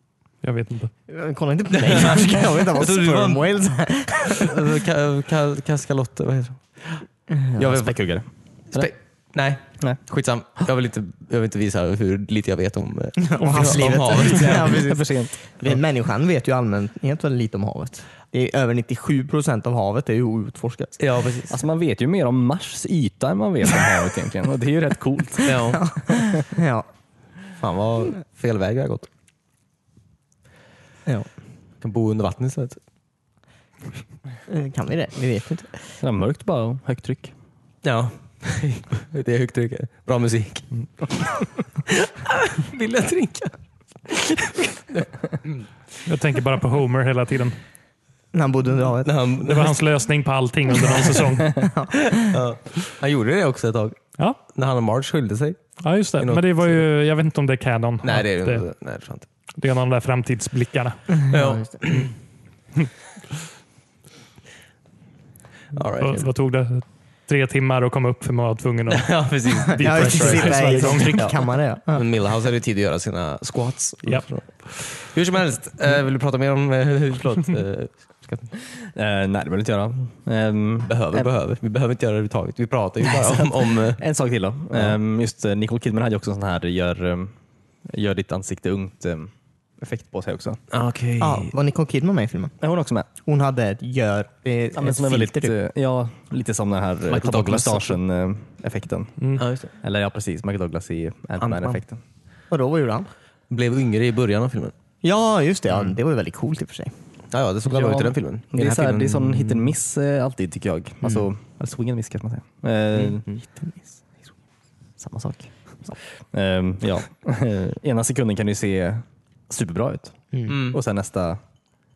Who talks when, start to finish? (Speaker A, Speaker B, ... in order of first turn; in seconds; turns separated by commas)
Speaker A: 0.4-0.9, Speaker B: 1.1-4.6, Speaker C: 1.7-3.5, Speaker C: 4.4-7.9, Speaker B: 7.3-7.8, Speaker D: 7.6-8.9, Speaker C: 8.7-14.9, Speaker B: 13.2-21.0, Speaker D: 13.5-15.4, Speaker C: 21.0-21.6, Speaker D: 21.5-25.8, Speaker C: 25.4-25.8, Speaker B: 25.8-26.9, Speaker C: 27.6-29.1, Speaker C: 31.8-32.8, Speaker B: 34.5-35.8, Speaker D: 36.0-37.3, Speaker C: 37.8-43.5, Speaker C: 44.1-45.6, Speaker A: 46.0-47.6, Speaker B: 48.3-49.1, Speaker C: 49.0-49.8, Speaker A: 49.4-51.7, Speaker B: 51.6-52.2, Speaker C: 52.1-55.6, Speaker A: 55.8-58.6, Speaker C: 56.2-56.8, Speaker C: 58.0-59.2, Speaker A: 59.6-61.1, Speaker B: 61.2-61.8, Speaker C: 61.3-62.1, Speaker C: 65.7-66.3, Speaker A: 66.0-71.3, Speaker C: 68.9-71.3, Speaker B: 69.7-72.0, Speaker C: 71.9-78.5, Speaker D: 78.9-80.9, Speaker C: 80.8-84.0, Speaker D: 83.1-87.3, Speaker D: 87.8-90.6, Speaker C: 90.7-91.5, Speaker B: 91.2-92.5, Speaker D: 92.6-93.1, Speaker B: 93.2-95.5, Speaker D: 94.7-102.0, Speaker C: 97.1-98.0, Speaker A: 99.2-99.4, Speaker C: 99.4-99.7, Speaker C: 101.4-101.8, Speaker B: 102.5-103.1, Speaker C: 103.5-104.7, Speaker B: 105.0-106.9, Speaker C: 107.3-109.7, Speaker D: 107.7-113.2, Speaker C: 112.9-113.4, Speaker D: 115.0-115.5, Speaker D: 116.3-121.4, Speaker C: 120.5-120.8